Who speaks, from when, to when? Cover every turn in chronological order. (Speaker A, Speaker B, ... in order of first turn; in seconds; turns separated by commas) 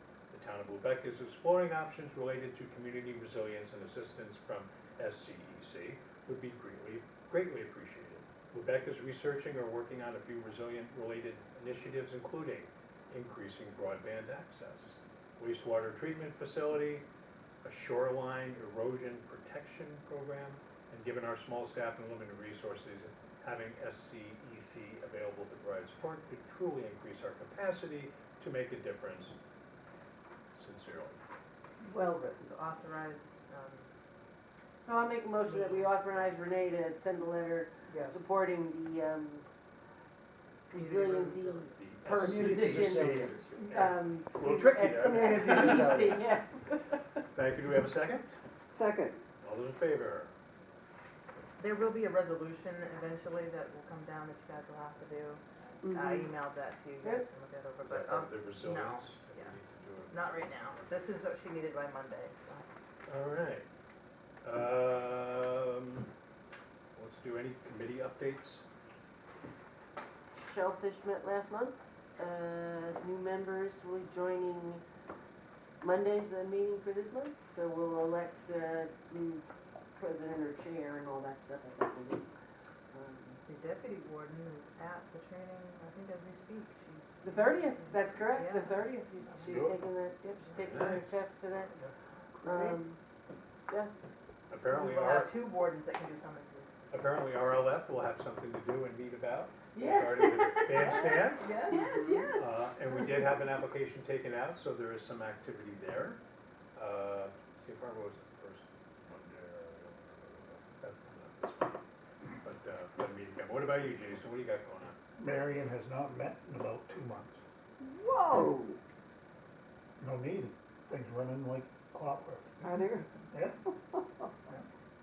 Speaker A: 0.3-17.1, Speaker A: 17.6-29.4, Speaker A: 30.5-31.2, Speaker B: 32.1-33.9, Speaker C: 34.8-39.5, Speaker B: 35.4-36.3, Speaker C: 40.7-47.0, Speaker B: 40.7-41.9, Speaker A: 41.8-42.9, Speaker D: 42.2-43.4, Speaker A: 43.6-46.0, Speaker E: 45.2-46.1, Speaker A: 47.3-48.4, Speaker E: 48.7-49.2, Speaker A: 49.4-50.3, Speaker B: 51.6-59.5, Speaker E: 55.8-56.3, Speaker C: 57.0-57.3, Speaker A: 57.8-60.9, Speaker B: 60.1-62.6, Speaker A: 63.1-63.7, Speaker A: 64.4-66.1, Speaker A: 66.9-68.6, Speaker C: 70.3-74.8, Speaker C: 75.8-82.3, Speaker C: 82.9-83.4, Speaker B: 83.5-89.7, Speaker C: 87.2-91.7, Speaker A: 89.5-89.8, Speaker A: 90.5-91.2, Speaker C: 92.4-93.0, Speaker A: 94.5-95.4, Speaker B: 94.7-96.8, Speaker A: 96.9-101.5, Speaker C: 99.8-100.1, Speaker B: 100.6-102.1, Speaker C: 101.7-102.5, Speaker A: 102.1-106.2, Speaker A: 106.8-111.8, Speaker A: 112.4-115.0, Speaker D: 115.2-117.4, Speaker E: 117.8-118.8, Speaker D: 120.0-122.6, Speaker E: 122.6-123.2, Speaker D: 123.3-123.6, Speaker E: 123.9-124.3